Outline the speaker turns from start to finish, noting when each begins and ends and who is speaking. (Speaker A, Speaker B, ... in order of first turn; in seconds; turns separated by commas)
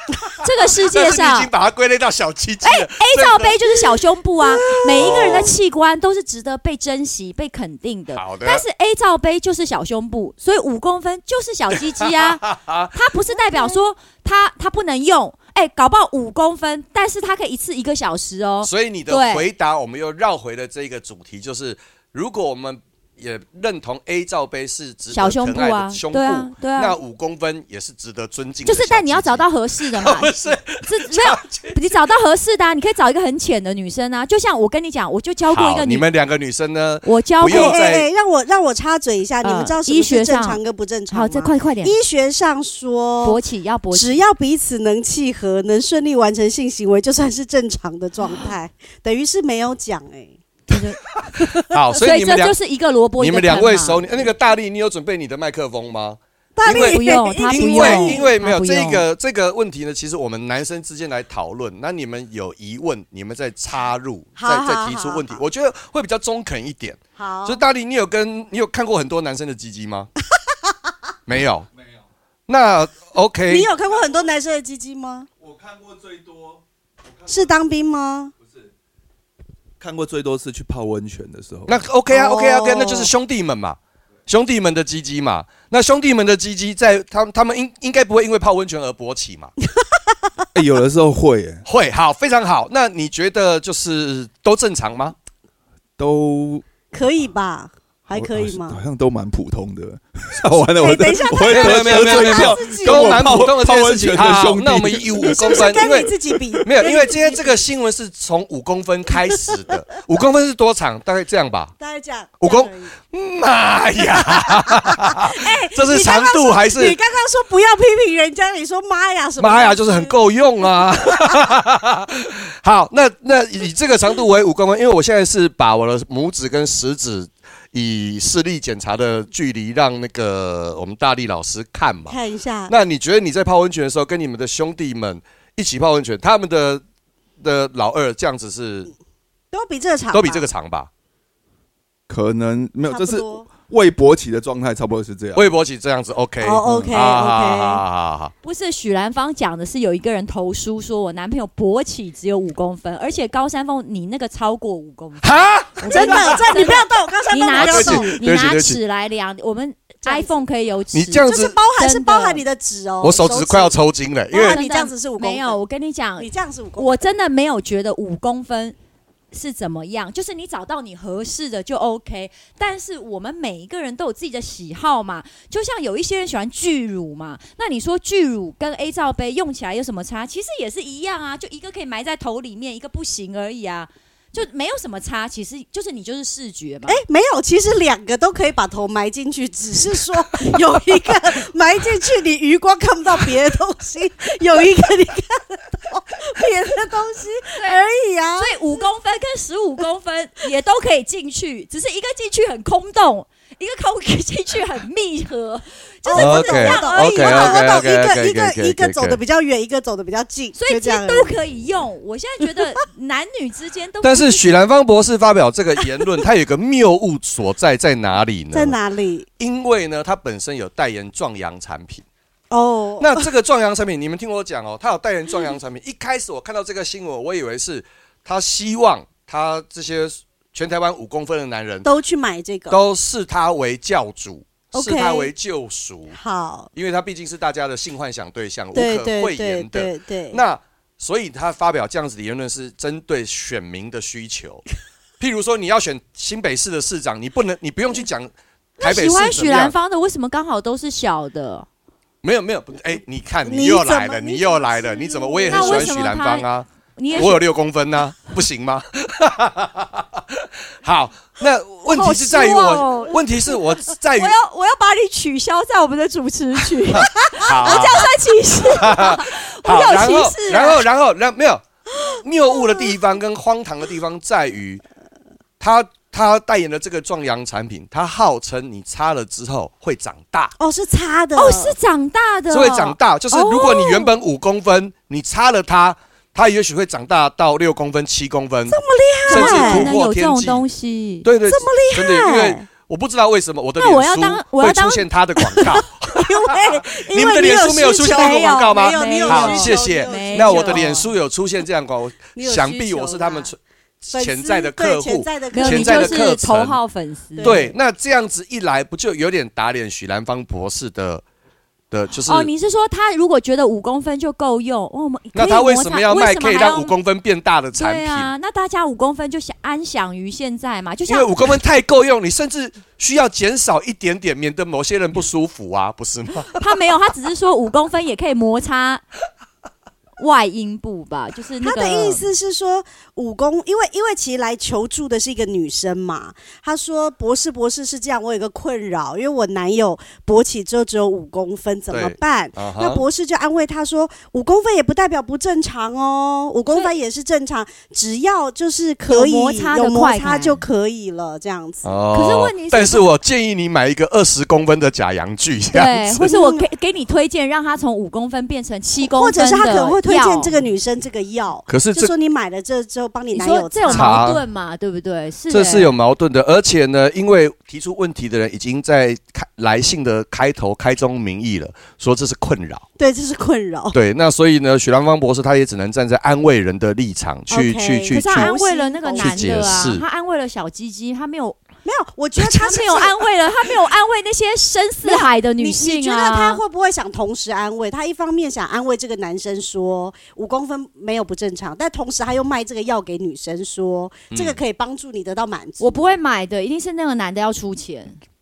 Speaker A: 0.4-1.5, Speaker B: 0.9-3.9, Speaker A: 2.6-12.4, Speaker B: 4.6-5.6, Speaker B: 8.1-8.6, Speaker B: 12.0-12.9, Speaker A: 12.9-19.5, Speaker C: 13.3-13.8, Speaker B: 18.6-32.0, Speaker A: 25.1-27.0, Speaker A: 28.6-36.0, Speaker B: 35.5-38.1, Speaker A: 37.0-37.8, Speaker C: 37.4-43.4, Speaker A: 39.4-42.0, Speaker A: 43.2-44.2, Speaker C: 43.9-50.4, Speaker A: 50.7-54.1, Speaker B: 51.7-52.6, Speaker B: 53.2-70.1, Speaker C: 56.6-58.3, Speaker A: 56.6-59.0, Speaker C: 64.4-65.4, Speaker C: 67.2-67.6, Speaker B: 71.3-71.7, Speaker B: 72.5-73.7, Speaker C: 73.5-75.3, Speaker D: 75.4-76.6, Speaker D: 77.2-77.4, Speaker C: 77.3-78.3, Speaker D: 79.8-81.8, Speaker B: 81.7-89.5, Speaker C: 82.1-83.1, Speaker D: 90.5-91.6, Speaker B: 91.7-95.2, Speaker D: 96.0-96.7, Speaker C: 96.9-98.8, Speaker D: 98.1-106.6, Speaker C: 100.8-103.5, Speaker B: 101.5-111.7, Speaker C: 105.2-107.6, Speaker C: 111.8-112.9, Speaker B: 112.4-117.0, Speaker C: 114.1-120.2, Speaker B: 119.4-132.2, Speaker C: 120.8-121.3, Speaker C: 132.1-132.7, Speaker B: 132.7-136.8, Speaker B: 137.4-138.9, Speaker C: 139.5-140.5, Speaker B: 140.1-140.9, Speaker D: 142.1-145.6, Speaker C: 142.9-143.5, Speaker B: 145.3-148.3, Speaker C: 146.4-147.8, Speaker A: 148.4-162.4, Speaker B: 155.2-156.7, Speaker C: 155.8-158.1, Speaker B: 157.6-158.8, Speaker C: 160.0-160.3, Speaker B: 160.9-161.6, Speaker C: 161.2-163.8, Speaker B: 163.0-164.6, Speaker C: 164.3-165.6, Speaker A: 164.4-168.8, Speaker C: 166.2-167.0, Speaker A: 169.3-187.0, Speaker C: 186.9-198.8, Speaker A: 197.6-197.8, Speaker A: 198.4-207.6, Speaker C: 206.1-211.3, Speaker B: 206.2-209.2, Speaker A: 210.6-214.5, Speaker B: 214.0-218.8, Speaker C: 218.5-219.3, Speaker B: 219.4-222.1, Speaker C: 222.5-223.3, Speaker B: 223.0-231.9, Speaker C: 231.8-232.8, Speaker B: 232.7-236.2, Speaker C: 234.7-235.3, Speaker C: 236.2-236.7, Speaker B: 236.7-244.7, Speaker C: 238.7-240.4, Speaker B: 245.2-249.8, Speaker A: 248.8-251.7, Speaker B: 252.2-264.4, Speaker C: 253.4-256.0, Speaker A: 255.5-257.4, Speaker A: 261.9-263.2, Speaker A: 264.1-270.8, Speaker B: 266.9-274.8, Speaker C: 267.1-267.9, Speaker B: 275.6-280.5, Speaker C: 280.6-281.8, Speaker A: 281.4-284.1, Speaker B: 282.5-290.6, Speaker C: 288.7-290.0, Speaker A: 289.3-291.3, Speaker B: 291.2-306.8, Speaker C: 291.5-292.6, Speaker A: 293.8-295.1, Speaker C: 295.6-301.0, Speaker A: 298.1-301.1, Speaker C: 302.4-303.5, Speaker C: 304.1-306.3, Speaker A: 305.5-307.7, Speaker C: 307.4-307.7, Speaker B: 307.4-311.2, Speaker B: 311.9-312.5, Speaker A: 312.1-316.9, Speaker B: 315.3-318.3, Speaker A: 317.8-321.5, Speaker B: 321.1-326.6, Speaker A: 326.5-329.1, Speaker A: 330.2-332.2, Speaker C: 331.6-351.9, Speaker B: 341.9-343.0, Speaker A: 349.1-350.6, Speaker B: 351.8-356.3, Speaker A: 352.1-353.1, Speaker A: 355.7-360.6, Speaker C: 356.2-356.7, Speaker C: 359.0-364.2, Speaker B: 361.7-362.1, Speaker A: 363.4-365.9, Speaker B: 363.9-364.4, Speaker B: 365.5-372.8, Speaker C: 373.0-374.0, Speaker B: 373.9-378.5, Speaker C: 377.5-379.9, Speaker A: 378.1-381.6, Speaker B: 379.2-380.0, Speaker C: 381.9-383.2, Speaker A: 382.4-386.6, Speaker C: 385.0-396.0, Speaker B: 394.3-394.6, Speaker A: 395.8-398.2